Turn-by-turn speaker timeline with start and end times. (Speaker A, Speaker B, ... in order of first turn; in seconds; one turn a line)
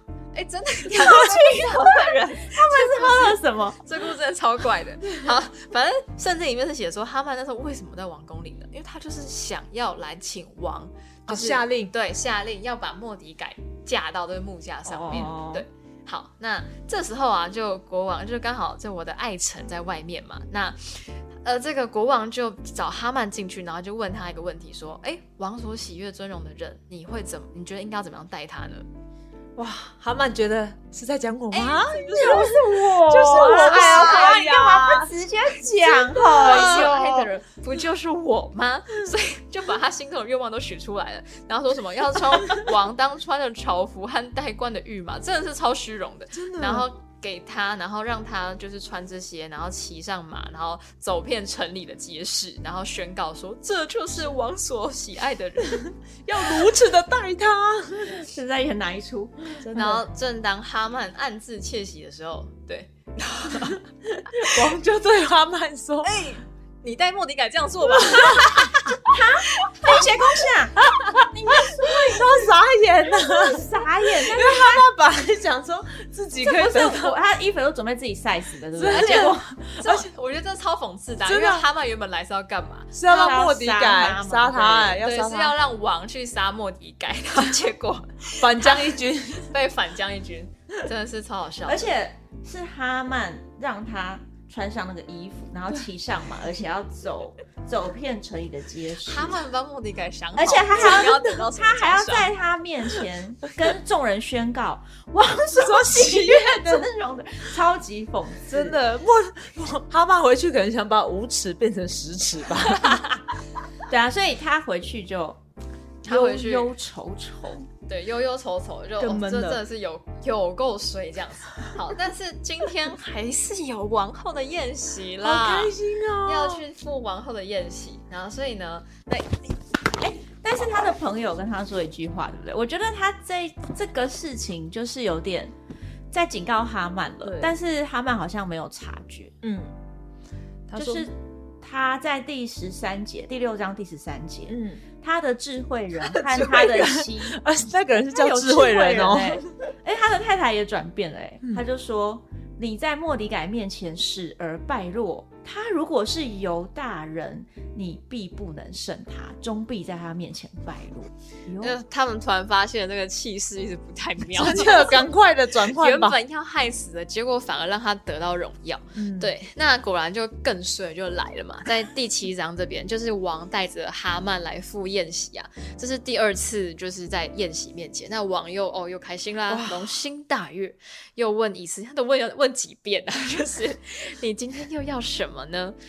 Speaker A: 0.3-28.9
Speaker B: 1.2-3.8
Speaker C: 11.3-11.9
Speaker B: 14.8-15.6
Speaker C: 29.6-35.1
Speaker A: 31.5-32.6
Speaker B: 32.1-37.3
Speaker A: 33.2-34.5
Speaker A: 36.1-55.9
Speaker C: 36.1-36.9
Speaker C: 46.3-46.9
Speaker C: 56.2-58.2
Speaker B: 58.1-59.9
Speaker C: 59.6-60.0
Speaker A: 59.7-63.8
Speaker C: 64.4-66.2
Speaker A: 66.0-70.1
Speaker C: 67.9-68.6
Speaker B: 69.1-72.5
Speaker A: 70.8-71.1
Speaker C: 71.7-77.2
Speaker B: 73.1-74.8
Speaker B: 76.4-79.5
Speaker C: 78.8-80.1
Speaker A: 78.9-83.0
Speaker C: 81.2-81.7
Speaker C: 82.9-85.5
Speaker B: 83.0-84.9
Speaker A: 84.9-91.9
Speaker C: 88.4-89.5
Speaker B: 91.7-99.4
Speaker A: 99.0-102.3
Speaker B: 100.3-108.8
Speaker C: 100.8-101.1
Speaker C: 105.5-106.9
Speaker C: 108.5-113.1
Speaker B: 113.9-115.4
Speaker A: 116.0-116.7
Speaker B: 116.0-117.7
Speaker A: 117.9-129.5
Speaker C: 119.0-119.6
Speaker C: 125.2-126.6
Speaker B: 130.0-135.5
Speaker B: 136.1-139.3
Speaker C: 137.2-137.5
Speaker C: 139.4-139.7
Speaker C: 140.7-141.1
Speaker B: 140.7-147.4
Speaker C: 144.5-144.8
Speaker C: 146.0-149.4
Speaker B: 148.1-161.7
Speaker A: 161.6-165.1
Speaker C: 164.3-166.2
Speaker A: 165.7-185.8
Speaker C: 168.9-169.3
Speaker C: 179.5-180.0